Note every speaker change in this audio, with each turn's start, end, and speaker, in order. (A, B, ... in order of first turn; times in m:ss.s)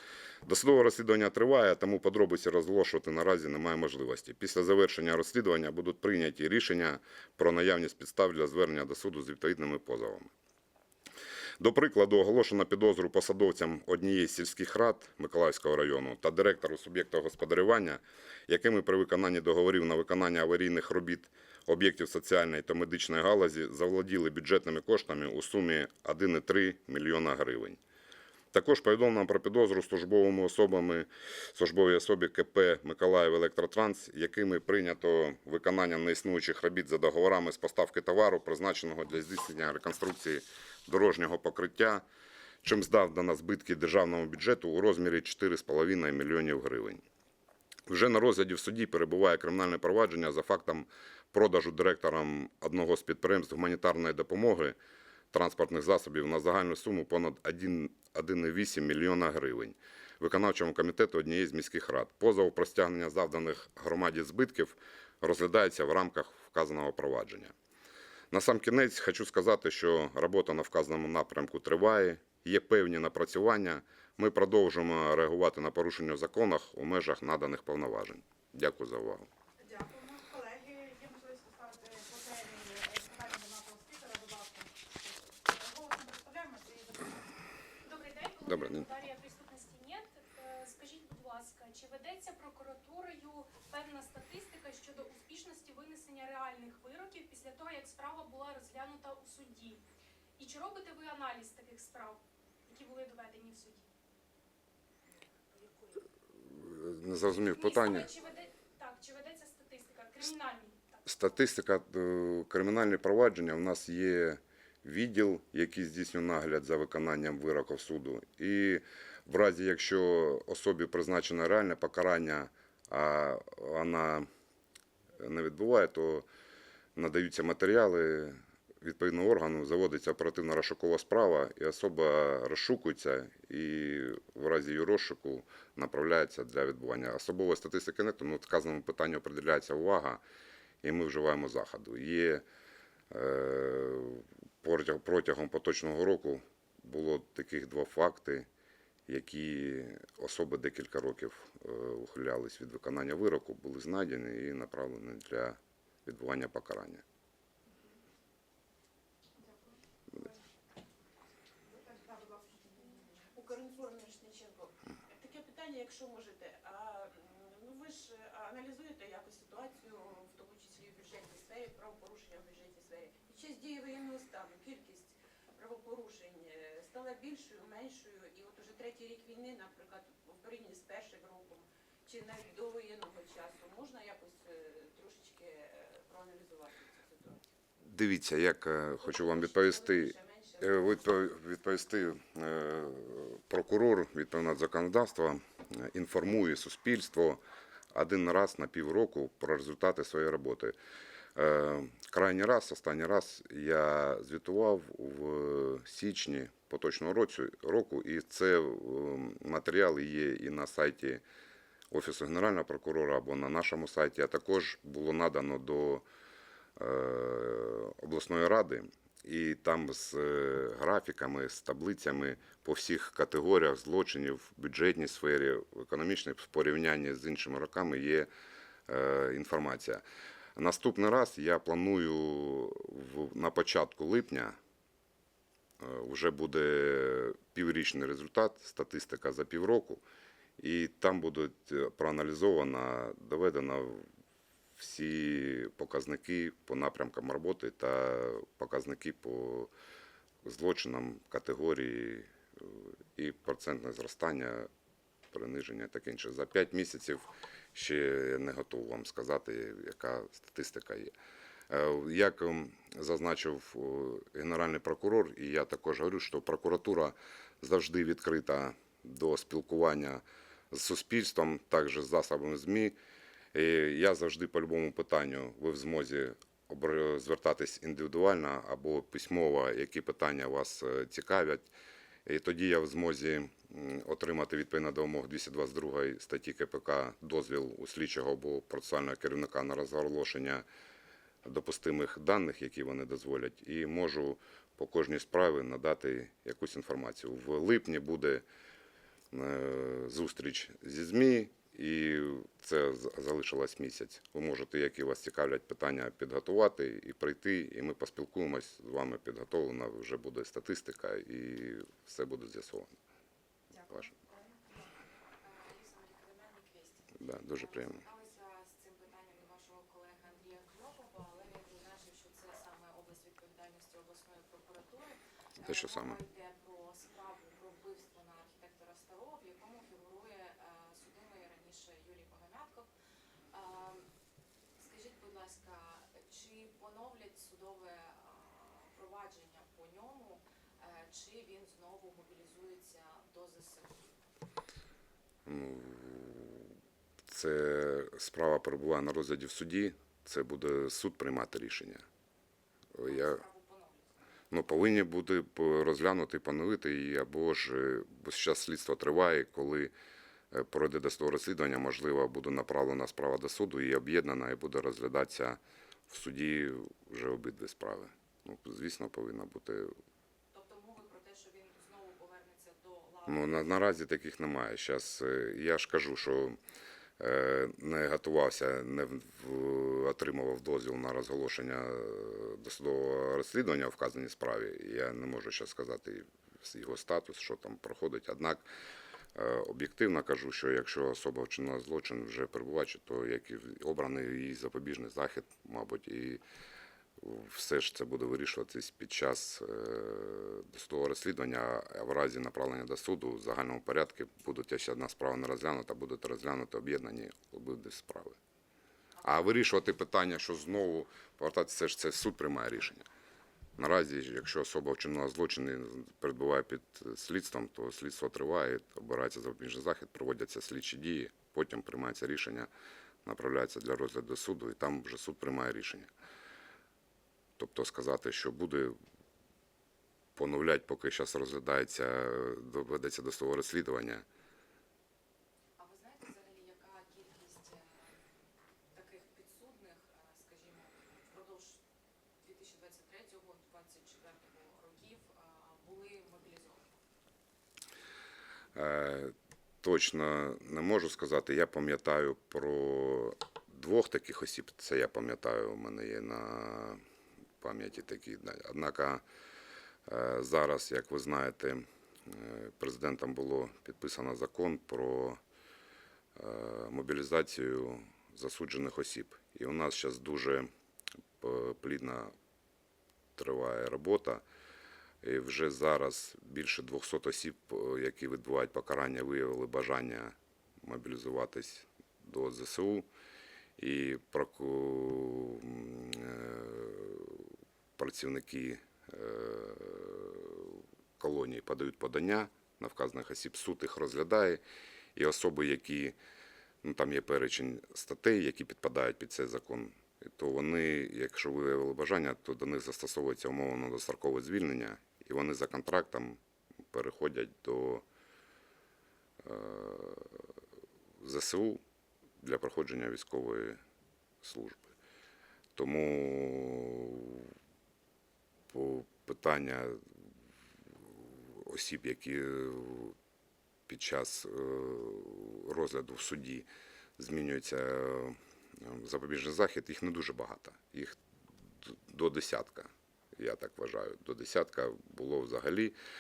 0:00.4-0:10.3 A
0:11.6-0:27.8 A
0:28.5-0:42.0 A
0:42.6-0:47.0 A
0:47.9-0:54.8 A
0:55.3-1:07.5 A
1:08.3-1:19.3 A
1:19.6-1:27.3 B
1:27.8-1:39.8 C
1:28.5-1:28.9 A
1:40.4-1:43.9 C
1:45.1-1:46.1 D
1:46.5-1:48.1 A
1:47.2-1:48.6 D
1:47.6-1:51.2 C
1:51.0-2:04.3 A
2:05.2-2:06.3 A
2:07.0-2:20.2 A
2:20.8-2:22.4 A
2:23.1-2:28.5 A
2:29.1-2:37.0 A
2:39.4-2:40.4 B
2:41.7-2:42.8 B
2:42.8-3:07.4 E
3:07.8-3:17.4 A
3:09.0-3:11.1 E
3:17.9-3:20.8 A
3:21.4-3:31.2 A
3:31.9-3:36.0 A
3:36.8-3:48.3 A
3:48.9-3:50.0 A
3:50.6-3:54.6 A
3:55.8-4:00.0 A
4:00.6-4:04.1 A
4:04.8-4:09.7 A
4:10.4-4:14.7 A
4:15.3-4:21.1 A
4:21.7-4:33.0 A
4:33.5-4:41.7 A
4:42.3-4:50.6 A
4:51.4-4:58.4 A
4:59.3-5:13.0 A
5:13.7-5:14.7 B
5:15.4-5:32.9 D
5:17.2-5:18.0 A
5:25.6-5:26.2 A
5:33.5-5:34.1 D
5:34.8-5:44.1 D
5:45.5-5:46.7 A
5:47.3-5:52.0 A
5:53.0-5:53.4 A
5:53.0-5:54.2 D
5:54.5-5:59.9 A
6:00.5-6:09.9 A
6:10.5-6:14.0 D
6:13.3-6:16.6 A
6:17.2-6:28.7 A
6:29.4-6:36.4 A
6:37.2-6:48.4 A
6:49.2-6:49.5 D
6:49.2-6:53.1 A
6:53.8-7:02.7 A
7:03.2-7:06.1 A
7:07.6-7:09.0 A
7:10.4-7:14.2 A
7:15.8-7:18.2 D
7:18.9-7:21.8 D
7:22.4-7:26.9 D
7:28.8-7:37.0 A
7:37.6-7:39.2 A
7:40.1-7:45.4 A
7:46.4-7:50.7 A
7:51.4-7:52.3 A
7:53.4-7:54.4 A
7:55.2-8:03.1 A
8:03.8-8:14.6 A
8:15.2-8:16.2 A
8:16.8-8:26.4 A
8:26.9-8:28.0 A
8:29.4-8:30.5 A
8:31.2-8:31.8 A
8:32.4-8:33.8 A
8:34.4-8:34.9 A
8:35.8-8:37.5 A
8:38.7-8:40.0 A
8:41.2-8:43.2 A
8:43.9-8:46.7 A
8:47.2-8:51.2 A
8:51.8-8:56.0 A